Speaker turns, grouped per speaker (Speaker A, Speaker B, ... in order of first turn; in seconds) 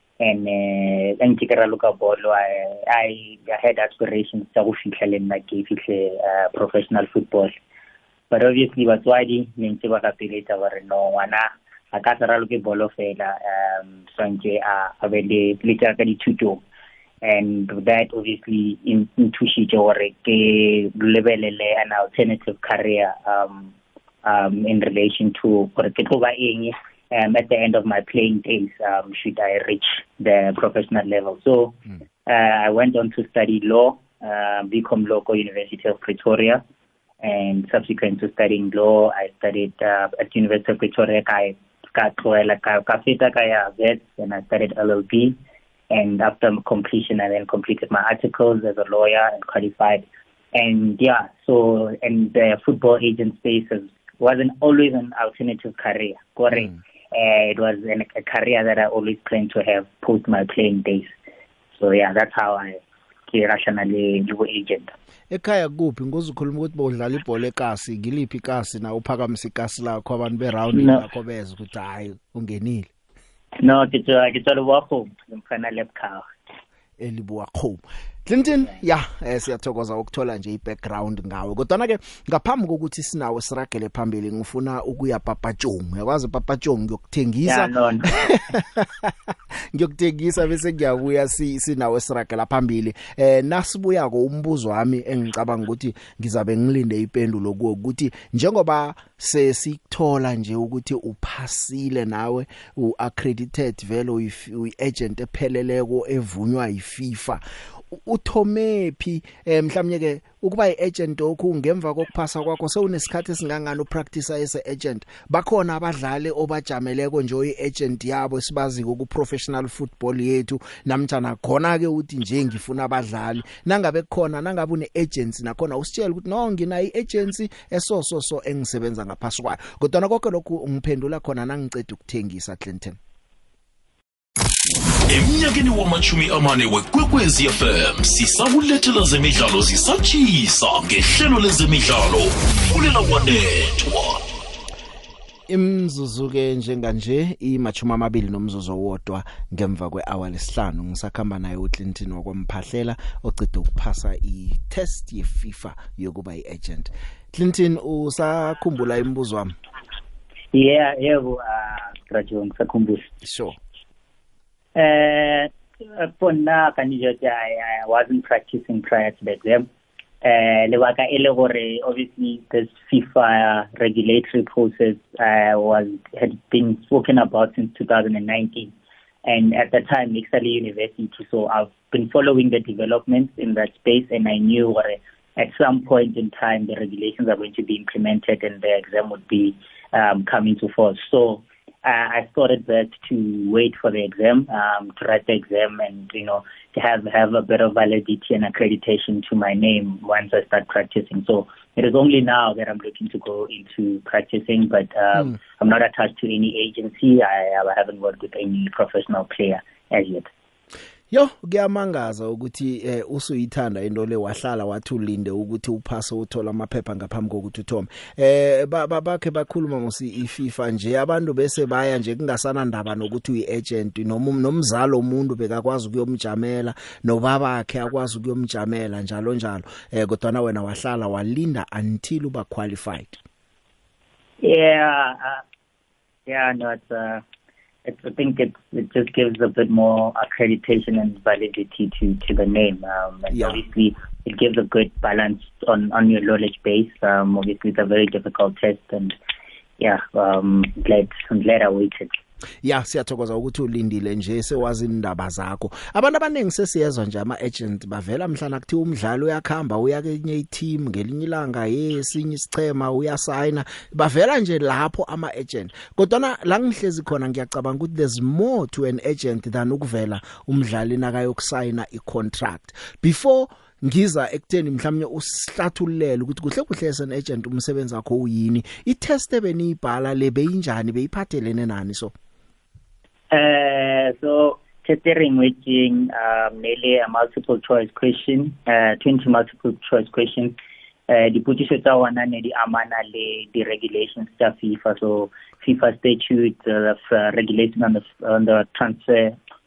Speaker A: 0.2-7.5, 8.3-16.6, 17.2-23.7, 24.2-36.6, 37.2-45.4, 45.9-61.1, 61.7-64.9, 70.7-71.0, 73.6-76.3, 87.5-88.3, 160.5-163.1, 164.8-169.7, 170.2-178.7, 179.3-210.3, 234.4-235.4, 236.3-237.2, 237.9-249.2, 249.8-252.1, 283.3-290.6, 291.1-299.4
Speaker B: 65.3-72.9, 77.0-89.1, 89.7-133.0, 145.5-159.6, 163.2-163.6, 211.1-233.2, 243.3-243.6, 252.6-282.1
Speaker C: 135.1-144.2